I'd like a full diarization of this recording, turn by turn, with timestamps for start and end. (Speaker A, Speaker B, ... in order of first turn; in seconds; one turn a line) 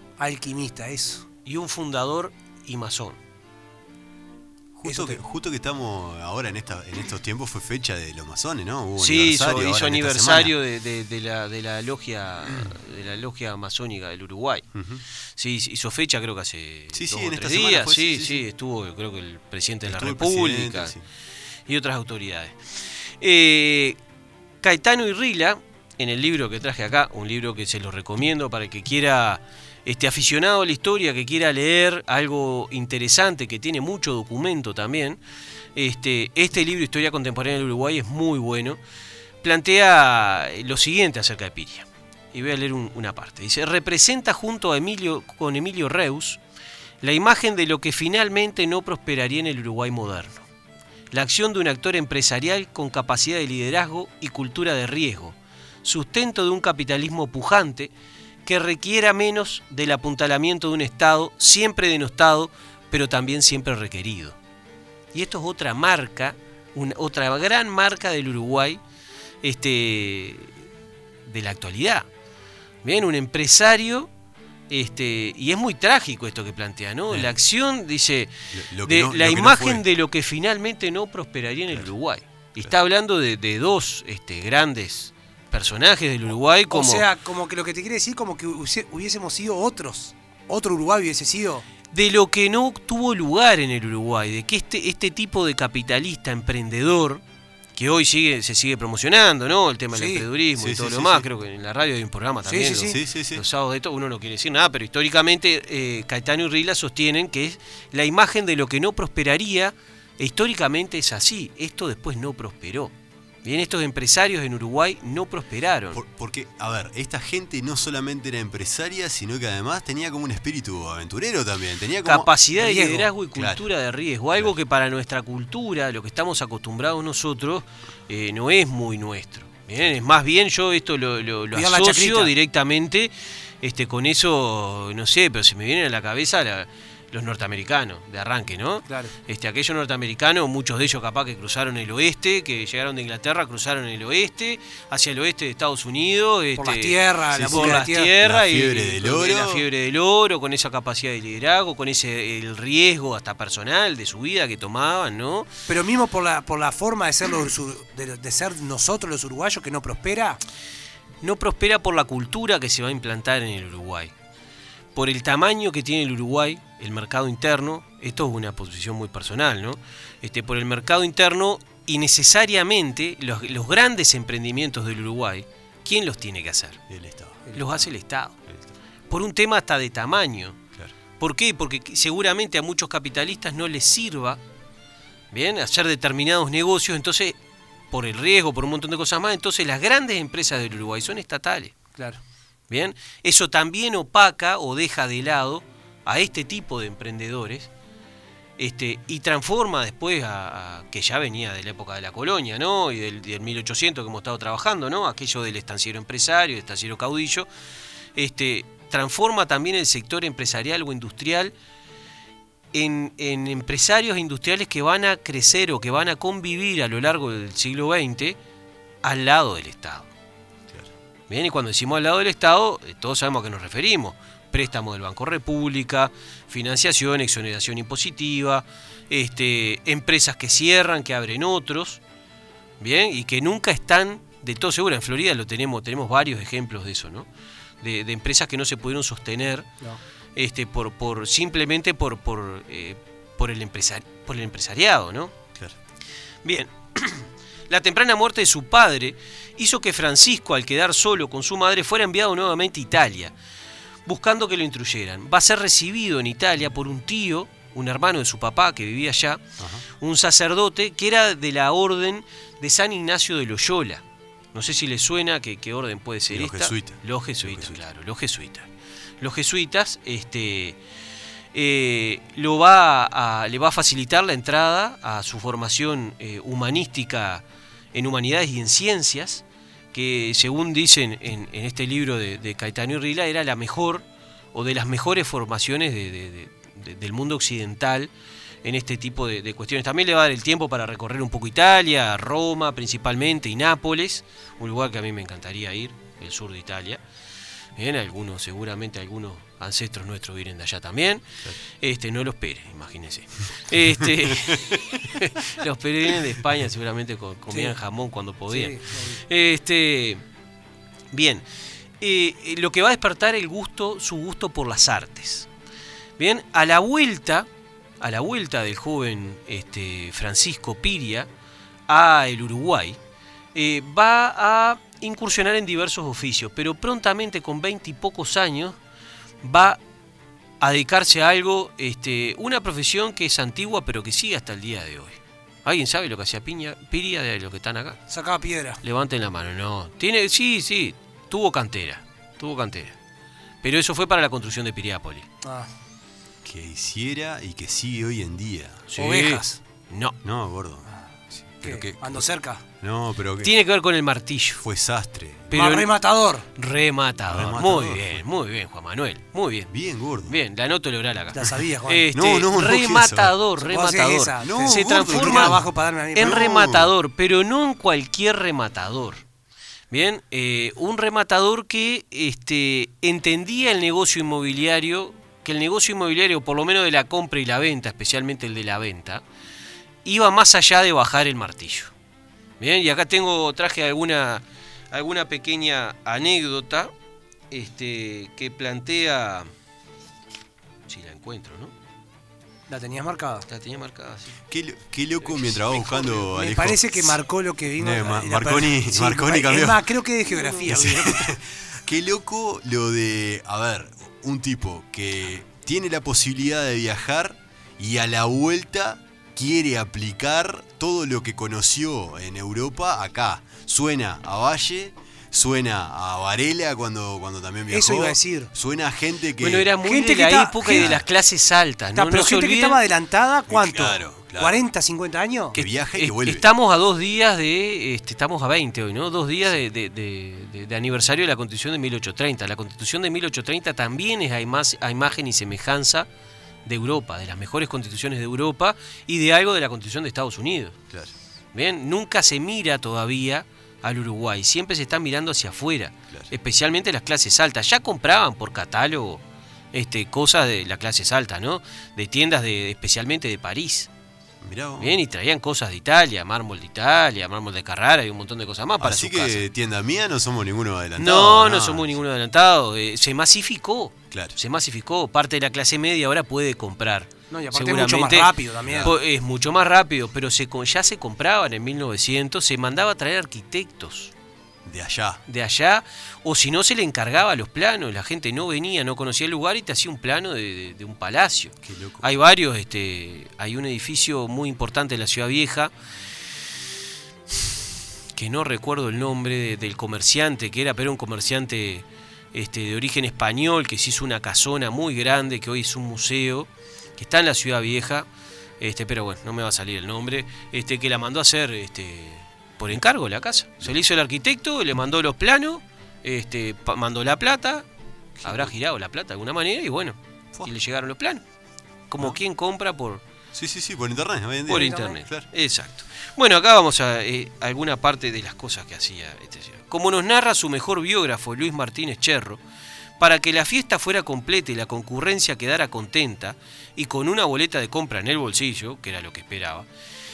Speaker A: 0.2-1.2
Speaker B: 1.5-3.2
Speaker C: 4.8-10.5
Speaker A: 4.9-5.2
Speaker B: 9.0-14.7
Speaker C: 12.4-12.8
Speaker C: 14.8-15.0
Speaker B: 15.4-20.9
Speaker C: 16.9-18.4
Speaker C: 19.9-21.0
Speaker B: 21.7-22.6
Speaker B: 23.2-24.0
Speaker B: 24.6-35.2
Speaker B: 35.8-38.8
Speaker B: 39.4-46.4
Speaker B: 47.0-50.5
Speaker B: 51.1-57.9
Speaker B: 58.5-64.4
Speaker B: 65.1-68.8
Speaker B: 69.4-70.5
Speaker B: 71.3-72.1
Speaker B: 72.8-74.1
Speaker B: 74.7-78.3
Speaker C: 78.5-79.8
Speaker B: 78.8-87.1
Speaker A: 86.7-91.7
Speaker B: 91.9-97.2
Speaker B: 97.8-112.9
Speaker A: 99.9-100.3
Speaker C: 100.6-101.3
Speaker A: 102.5-103.0
Speaker C: 102.8-103.4
Speaker B: 113.4-116.0
Speaker C: 115.9-122.3
Speaker B: 122.0-155.5
Speaker A: 122.6-123.1
Speaker C: 123.3-123.6
Speaker A: 131.5-132.3
Speaker A: 138.9-139.1
Speaker A: 146.6-148.1
Speaker C: 147.3-149.6
Speaker A: 155.7-160.4
Speaker B: 161.2-164.1
Speaker B: 164.9-176.8
Speaker C: 176.9-177.8
Speaker B: 177.5-178.4
Speaker C: 178.5-178.7
Speaker B: 179.1-180.6
Speaker B: 181.2-184.4
Speaker B: 185.3-187.4
Speaker B: 187.9-191.7
Speaker B: 192.7-197.7
Speaker B: 198.6-207.5
Speaker B: 208.2-211.5
Speaker B: 212.7-218.4
Speaker B: 219.0-220.1
Speaker B: 221.3-232.0
Speaker B: 232.8-237.3
Speaker B: 237.8-239.7
Speaker B: 240.4-245.3
Speaker B: 246.4-253.3
Speaker B: 254.1-259.4
Speaker C: 259.6-259.8
Speaker B: 260.0-264.0
Speaker B: 264.5-268.7
Speaker C: 266.3-267.8
Speaker B: 269.2-270.8
Speaker B: 271.5-277.4
Speaker B: 277.9-288.1
Speaker B: 288.6-297.0
Speaker B: 297.8-301.3
Speaker B: 301.8-310.2
Speaker C: 304.3-304.8
Speaker A: 308.5-309.2
Speaker B: 311.1-311.4
Speaker B: 312.0-315.5
Speaker B: 316.2-317.5
Speaker B: 318.0-321.3
Speaker B: 321.9-323.0
Speaker B: 323.6-328.8
Speaker B: 329.4-329.8
Speaker B: 330.6-338.0
Speaker A: 338.1-338.8
Speaker B: 338.8-342.9
Speaker B: 343.6-345.3
Speaker A: 345.4-345.7
Speaker C: 346.4-348.8
Speaker B: 348.9-350.2
Speaker A: 349.0-349.6
Speaker C: 350.2-352.3
Speaker A: 351.6-352.6
Speaker C: 352.8-353.5
Speaker B: 353.4-354.6
Speaker C: 354.6-355.6
Speaker B: 355.5-355.9
Speaker A: 355.5-356.5
Speaker B: 356.6-359.7
Speaker C: 357.3-358.2
Speaker C: 359.7-360.4
Speaker B: 360.3-365.6
Speaker A: 361.3-362.1
Speaker C: 362.1-363.4
Speaker A: 363.6-366.4
Speaker C: 364.4-365.6
Speaker B: 366.1-369.2
Speaker C: 366.2-366.9
Speaker B: 369.9-379.2
Speaker B: 380.1-381.9
Speaker B: 382.6-386.9
Speaker B: 387.5-389.5
Speaker B: 390.9-391.7
Speaker A: 392.7-393.5
Speaker B: 393.5-394.4
Speaker C: 394.5-397.2
Speaker B: 395.2-396.2
Speaker A: 396.2-401.3
Speaker C: 397.8-399.9
Speaker B: 400.4-400.6
Speaker C: 400.6-419.7
Speaker A: 417.7-418.5
Speaker B: 419.4-422.8
Speaker A: 419.8-421.0
Speaker C: 420.7-421.1
Speaker A: 421.9-425.6
Speaker C: 423.5-424.6
Speaker C: 425.6-426.5
Speaker B: 426.0-436.1
Speaker B: 436.7-440.8
Speaker B: 441.5-449.2
Speaker B: 449.7-453.9
Speaker C: 454.4-455.0
Speaker B: 454.8-459.4
Speaker C: 458.8-461.9
Speaker B: 461.0-474.1
Speaker A: 467.3-468.9
Speaker C: 468.6-469.0
Speaker C: 474.6-475.2
Speaker B: 475.3-485.7
Speaker C: 481.6-482.1
Speaker B: 488.1-498.1
Speaker B: 498.6-507.6
Speaker C: 508.2-508.5
Speaker B: 508.2-511.2
Speaker B: 511.9-513.0
Speaker C: 513.3-515.3
Speaker B: 514.5-522.4
Speaker A: 514.5-515.0
Speaker B: 523.0-529.7